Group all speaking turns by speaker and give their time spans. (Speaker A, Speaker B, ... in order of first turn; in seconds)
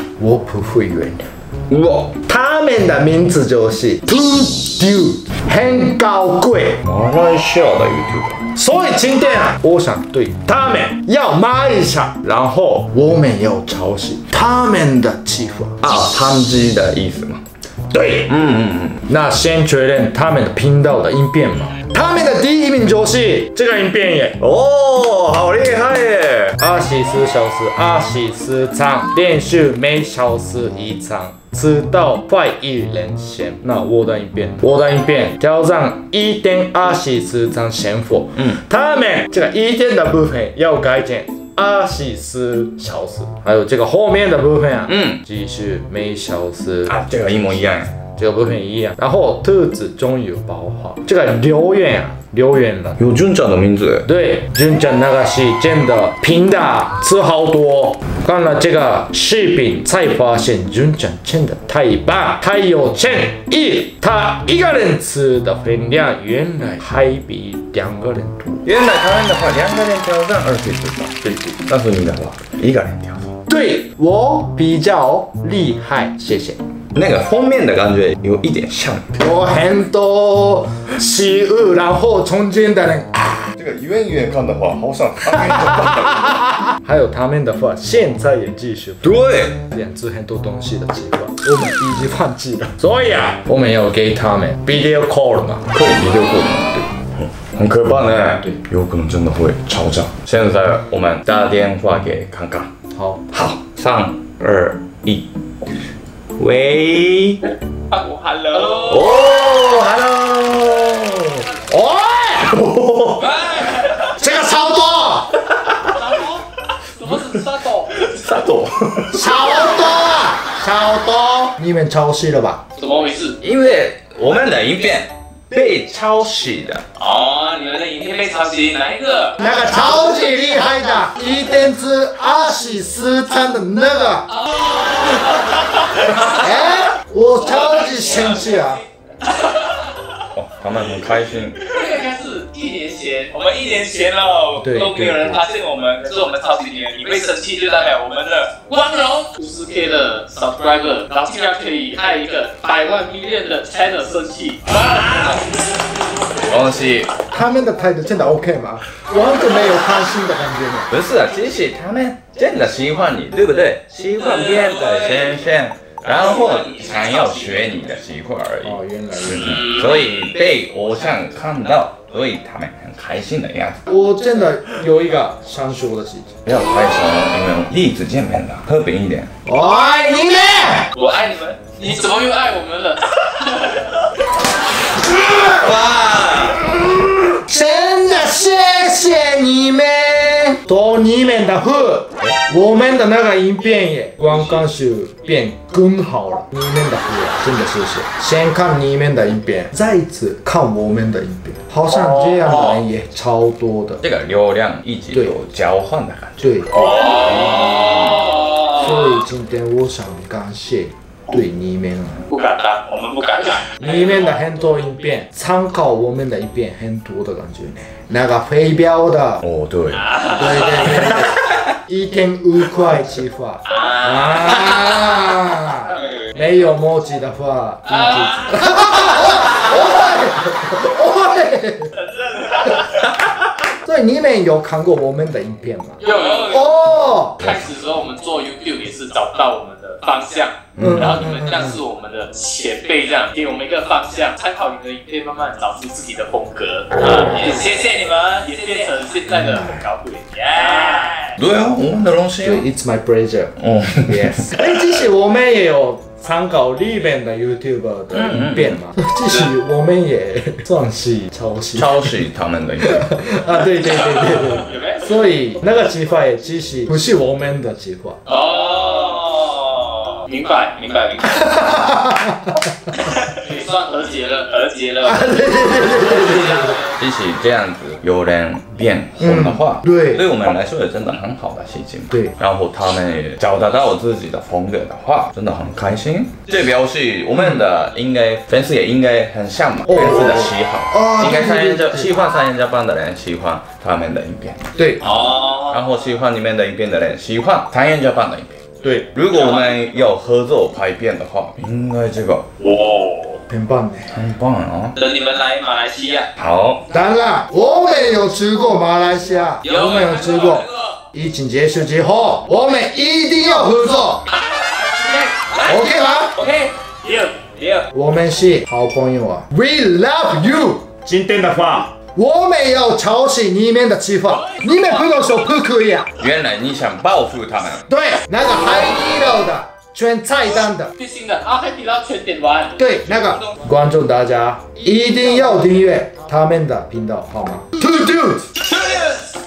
Speaker A: 0.2-1.3, 2.2-6.8, 8.6-15.8, 17.9-18.3, 19.1-24.4, 26.6-47.0, 48.2-53.0, 54.0-68.7, 73.5-76.6, 79.2-83.5, 86.8-95.7, 102.9-103.2, 108.9-115.3, 119.1-122.6, 129.4-134.3, 135.9-138.8, 144.6-145.4, 157.3-160.9, 168.6-169.8, 173.9-176.4, 179.4-180.9, 187.3-204.0, 206.4-207.9, 208.7-212.3, 213.8-219.4, 220.3-231.9, 233.8-237.4, 240.8-241.4, 252.4-262.1, 262.8-268.2, 271.4-272.6, 275.0-276.8, 279.2-280.2, 289.9-292.1, 298.8-299.1, 303.5-304.2, 306.9-314.2, 315.6-316.4, 317.9-326.1, 327.9-330.9, 332.8-338.5
Speaker B: 1.7-2.1, 6.8-8.4, 15.8-17.4, 18.3-19.0, 24.4-26.6, 44.9-45.2, 46.9-47.9, 53.0-54.1, 68.7-73.3, 76.9-79.2, 83.6-86.4, 89.0-89.6, 95.7-102.7, 103.3-105.7, 106.4-107.4, 117.9-119.6, 123.4-126.8, 140.3-141.6, 156.5-157.1, 160.9-173.8, 176.4-179.3, 184.9-186.7, 204.0-206.6, 207.6-208.3, 219.4-220.0, 240.8-241.1, 251.4-252.7, 253.6-254.4, 258.1-258.8, 261.8-263.1, 277.0-298.6, 299.1-302.4, 304.1-305.0, 306.4-306.8, 326.2-327.9
Speaker C: 107.9-109.1, 113.3-114.0, 116.0-116.4, 117.0-117.9, 122.8-123.4, 127.0-129.4, 137.9-138.3, 141.6-155.4, 166.1-167.7, 180.9-183.8, 207.2-208.7, 212.3-213.8, 220.0-221.2, 223.7-224.4, 232.2-232.8, 236.0-236.8, 237.4-251.3, 264.6-265.1, 268.3-271.7, 273.1-276.9, 295.0-295.8, 299.3-299.7, 302.6-303.4, 305.0-306.3, 309.6-310.7, 314.3-315.8, 316.4-317.9, 331.0-332.8, 338.7-339.3